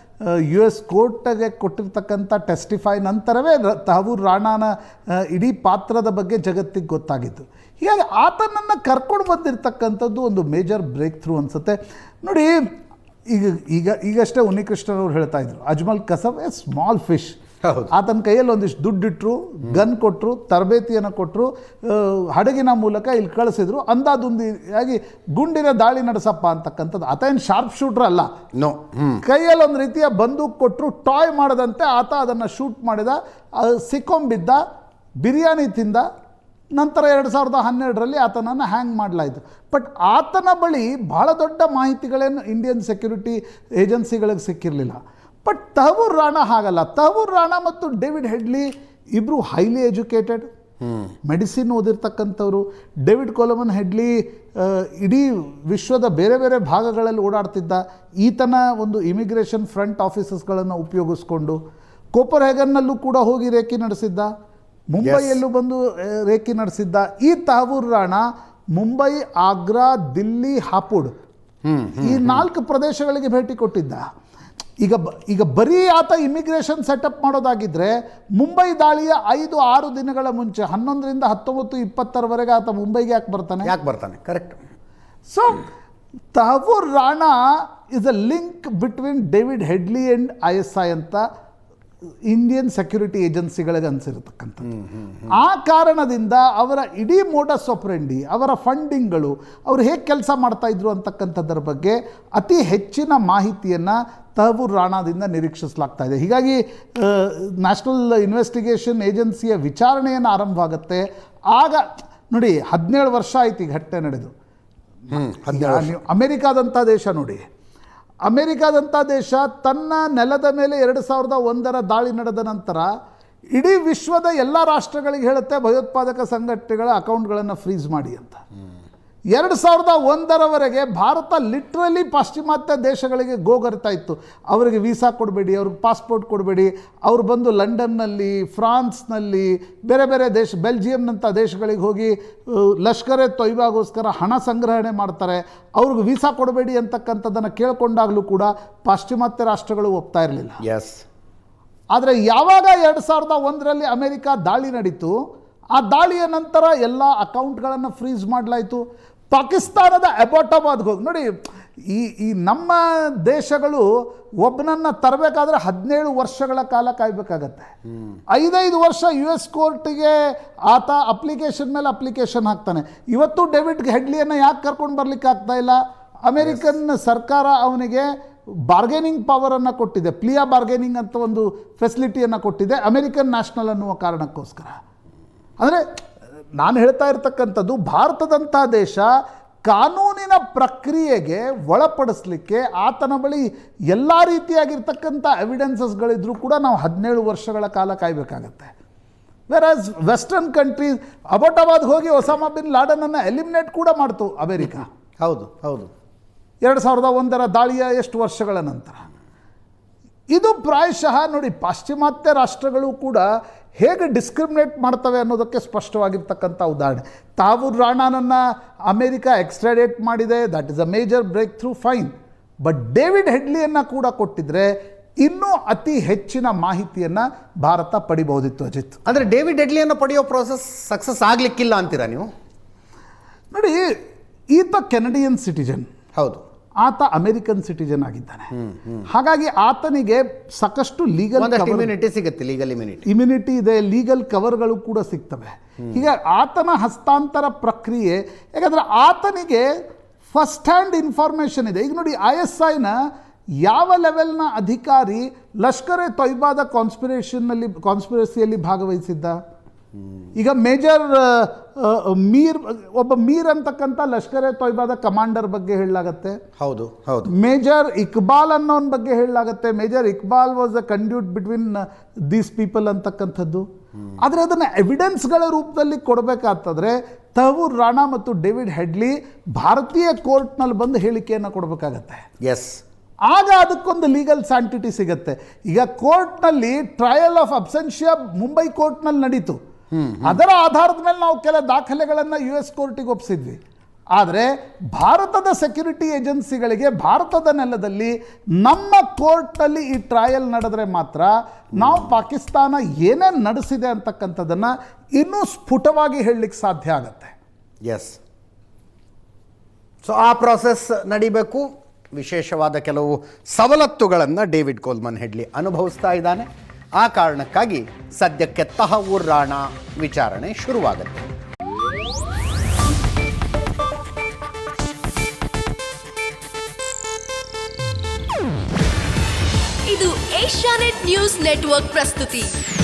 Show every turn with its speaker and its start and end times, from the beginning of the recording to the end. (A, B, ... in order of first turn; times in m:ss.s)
0:00.2-0:12.6 A
0:13.3-0:17.4 A
0:17.6-0:17.9 B
0:17.9-0:28.3 A
0:28.6-0:29.2 B
0:29.2-0:34.6 A
0:35.2-0:36.0 A
0:36.8-0:50.4 A
0:51.2-1:01.6 A
1:02.2-1:04.3 A
1:04.9-1:08.2 A
1:05.0-1:05.4 B
1:08.8-1:11.1 A
1:11.6-1:12.4 B
1:12.0-1:14.0 A
1:14.8-1:23.7 A
1:23.6-1:24.6 B
1:25.3-1:25.7 A
1:26.4-1:31.2 A
1:32.3-1:34.7 A
1:35.3-1:54.3 A
1:55.1-1:55.9 B
1:55.5-1:57.4 A
1:58.3-2:02.9 A
2:03.6-2:08.4 A
2:09.3-2:30.6 A
2:30.6-2:31.0 B
2:31.9-2:35.1 A
2:35.8-2:41.3 A
2:41.8-2:43.9 A
2:44.4-2:47.7 A
2:48.3-2:58.1 A
2:58.7-3:04.8 A
3:06.6-3:09.1 A
3:09.7-3:18.7 A
3:19.5-3:24.9 A
3:25.2-3:25.9 B
3:26.6-3:29.0 A
3:30.3-3:33.3 A
3:33.8-3:42.1 A
3:42.6-3:49.0 A
3:49.1-3:52.3 B
3:53.5-3:53.8 A
3:54.5-3:55.9 A
3:56.2-3:56.4 B
3:56.8-3:58.5 A
3:58.7-3:59.0 B
3:59.1-4:01.9 A
4:01.4-4:03.1 B
4:03.1-4:09.7 A
4:10.3-4:13.0 A
4:13.6-4:19.4 A
4:20.4-4:26.4 A
4:26.6-4:27.3 B
4:27.3-4:33.6 A
4:34.2-4:42.2 A
4:42.4-4:42.8 B
4:43.3-4:49.6 A
4:49.9-4:50.4 B
4:50.2-4:53.6 A
4:54.2-5:07.3 A
5:07.8-5:08.2 B
5:10.0-5:16.5 B
5:17.0-5:21.3 B
5:29.9-5:32.5 C